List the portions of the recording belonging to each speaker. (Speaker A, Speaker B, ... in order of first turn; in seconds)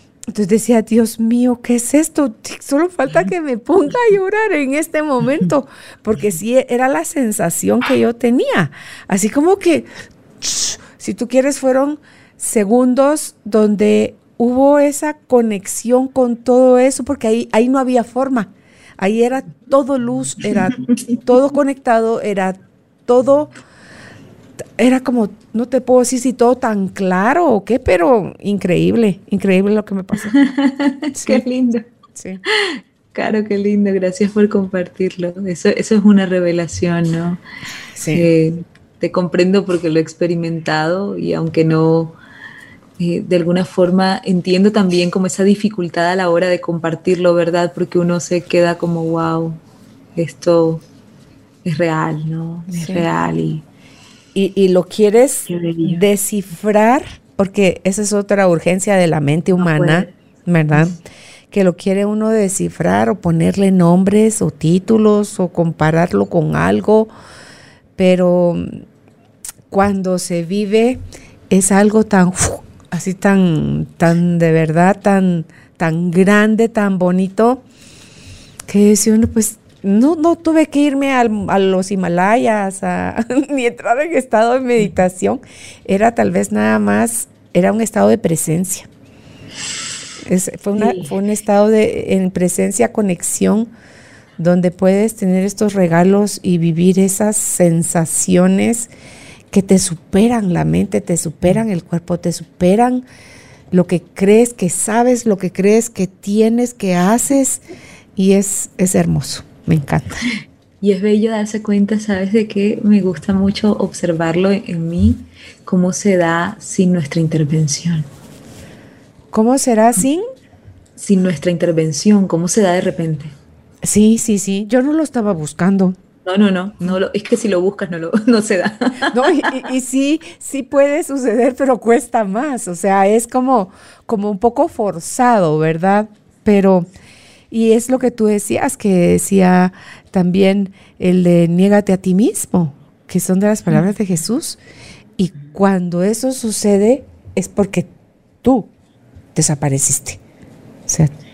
Speaker A: 0.3-9.8, 10.4-23.5, 24.8-30.3, 31.1-31.4, 32.1-32.4, 38.0-38.3, 52.7-53.0, 54.3-61.0, 61.5-67.1, 68.0-68.8, 69.7-77.6, 78.7-88.9, 90.2-93.7, 94.4-98.9, 99.5-103.0, 103.7-107.6, 108.2-110.3, 119.3-120.2, 123.8-126.0, 129.1-136.9, 137.5-144.6, 145.2-147.9, 148.4-148.7, 149.3-150.2, 150.9-151.1
Speaker B: 30.3-31.9, 32.5-37.4, 38.1-42.2, 43.0-49.6, 50.1-50.8, 51.6-53.6, 55.5-56.0, 59.6-60.1, 90.7-91.1, 110.8-118.1, 121.0-123.3, 126.2-129.6